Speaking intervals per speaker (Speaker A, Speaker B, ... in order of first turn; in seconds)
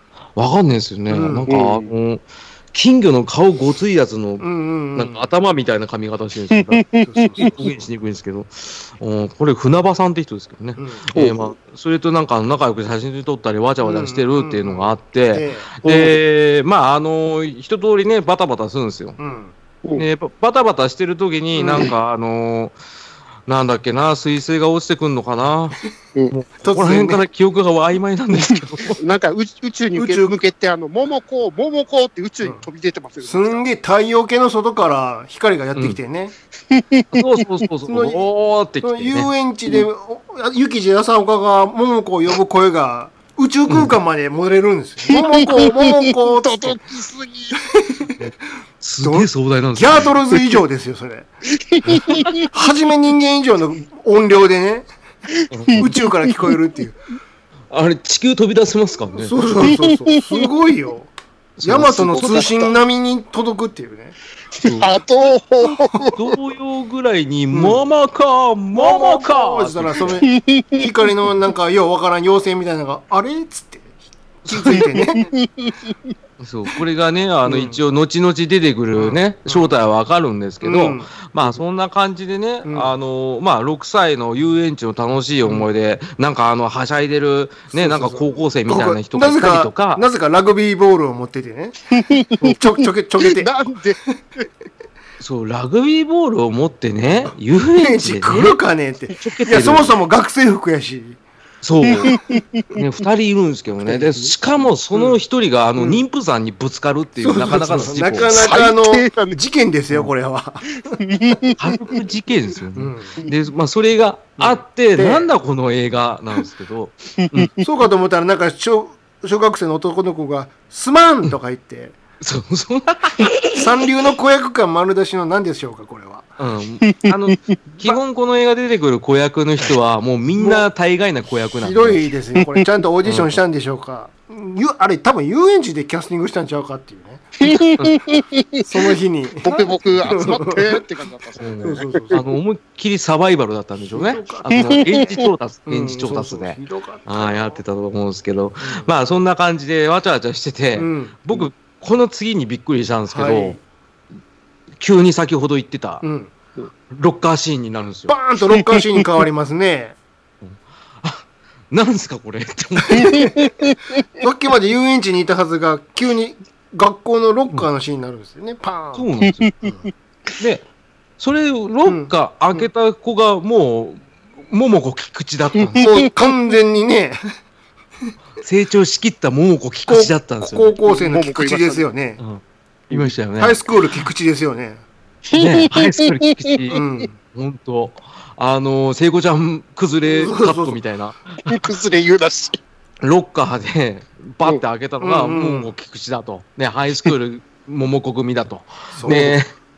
Speaker A: 0.3-6.8, 7.4-19.2, 20.0-22.8, 23.5-25.8, 26.3-29.0, 37.1-39.3, 43.7-43.9, 48.2-50.1, 51.9-52.4, 55.5-55.9, 57.7-59.4, 61.6-62.5, 64.6-65.0, 66.1-70.2, 74.5-74.9, 76.4-90.0, 95.2-98.6, 99.2-100.0, 101.6-102.2, 102.7-108.5, 111.6-117.5, 122.2-123.3, 126.4-132.0, 133.0-133.4, 141.4-153.6, 154.8-156.0, 156.9-158.2, 160.4-163.3, 168.9-169.5, 170.4-170.6, 171.2-175.9, 178.4-180.7, 182.2-183.7, 185.3-191.5, 193.0-199.5
Speaker B: 1.1-1.5, 4.4-5.3, 7.0-7.6, 10.8-11.1, 13.8-16.1, 19.2-19.5, 26.6-27.2, 29.9-30.4, 33.2-36.3, 37.9-38.3, 38.8-46.8, 47.7-48.1, 49.0-51.3, 52.4-54.9, 55.8-57.0, 59.2-61.1, 61.6-64.1, 67.5-67.8, 68.7-75.3, 77.5-77.8, 78.9-79.7, 80.6-81.6, 82.6-82.9, 87.7-91.8, 92.4-93.5, 97.2-101.2, 103.9-104.3, 104.9-105.2, 107.2-110.8, 112.8-113.2, 114.4-115.3, 117.6-122.0, 123.5-126.3, 130.3-130.7, 131.5-137.6, 138.6-140.8, 141.6-142.2, 143.9-147.6, 148.6-148.9, 150.8-151.4, 153.1-153.6, 156.0-156.3, 158.1-159.9, 162.9-163.5, 164.2-169.1, 169.6-169.9, 171.8-172.7, 175.8-177.2, 179.9-182.2, 182.9-184.8, 186.7-187.1, 190.0-190.8, 195.0-195.7, 198.9-199.4
Speaker C: 1.5-1.9, 6.5-7.5, 11.1-11.5, 28.5-33.6, 36.7-37.4, 45.1-47.6, 51.5-52.5, 55.4-56.5, 59.6-60.5, 62.1-62.7, 64.5-66.3, 70.3-70.9, 74.8-75.9, 92.0-92.6, 93.2-94.5, 101.8-102.8, 108.3-109.4, 110.8-111.6, 117.2-117.5, 126.9-127.4, 132.4-132.7, 137.4-138.7, 139.4-142.2, 144.5-145.2, 158.5-159.0, 163.0-163.8, 169.2-169.7, 180.8-181.8, 185.3-186.8, 191.4-192.6